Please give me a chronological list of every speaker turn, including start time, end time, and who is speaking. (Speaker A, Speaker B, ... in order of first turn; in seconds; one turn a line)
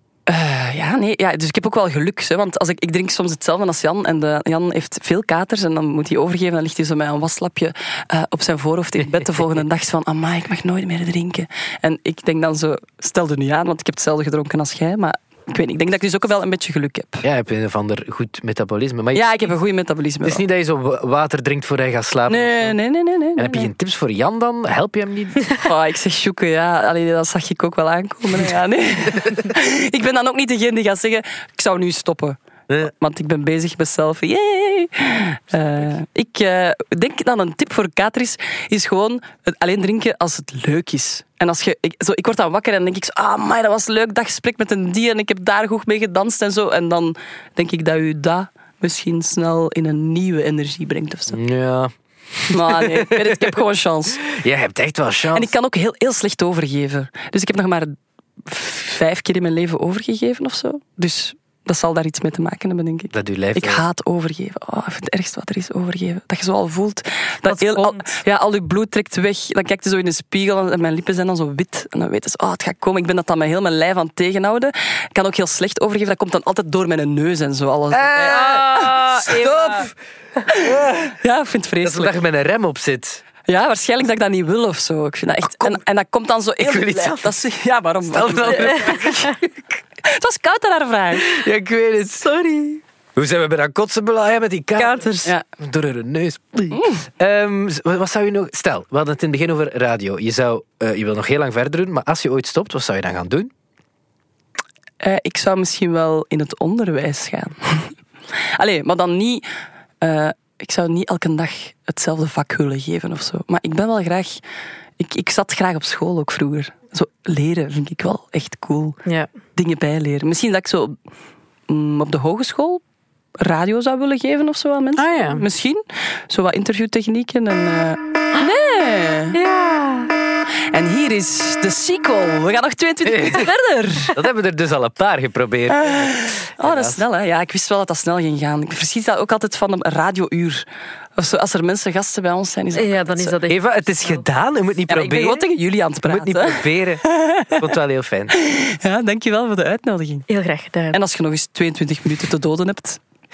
Speaker A: 0.3-17.2
Speaker B: 17.2-19.3
Speaker A: 19.1-20.4
Speaker B: 20.2-22.8
Speaker A: 22.3-23.7
Speaker B: 23.4-25.4
Speaker A: 25.6-51.4
Speaker B: 51.3-53.5
Speaker A: 52.5-54.2
Speaker B: 54.2-55.5
Speaker A: 55.3-79.0
Speaker B: 63.1-63.8
Speaker C: 67.5-68.1
Speaker B: 77.9-79.9
Speaker C: 78.2-79.9
Speaker A: 80.5-82.2
Speaker B: 80.5-81.1
Speaker B: 81.8-83.2
Speaker A: 83.5-89.3
Speaker B: 86.6-87.4
Speaker B: 88.1-89.4
Speaker A: 90.0-91.3
Speaker B: 91.2-92.2
Speaker C: 92.2-92.8
Speaker B: 93.2-103.5
Speaker C: 94.8-95.3
Speaker A: 96.7-97.0
Speaker A: 105.0-107.9
Speaker A: 108.6-109.5
Speaker A: 110.0-114.4
Speaker A: 115.0-119.0
Speaker A: 119.5-121.0
Speaker A: 121.7-122.8
Speaker A: 123.4-129.4
Speaker C: 125.0-125.4
Speaker C: 129.3-130.1
Speaker A: 130.7-134.2
Speaker B: 133.0-133.5
Speaker B: 134.1-137.0
Speaker A: 135.7-140.6
Speaker A: 141.2-143.3
Speaker C: 142.7-143.7
Speaker B: 143.5-145.4
Speaker A: 144.9-147.7
Speaker B: 146.0-148.3
Speaker A: 148.3-150.3
Speaker C: 150.3-151.0
Speaker A: 150.9-153.0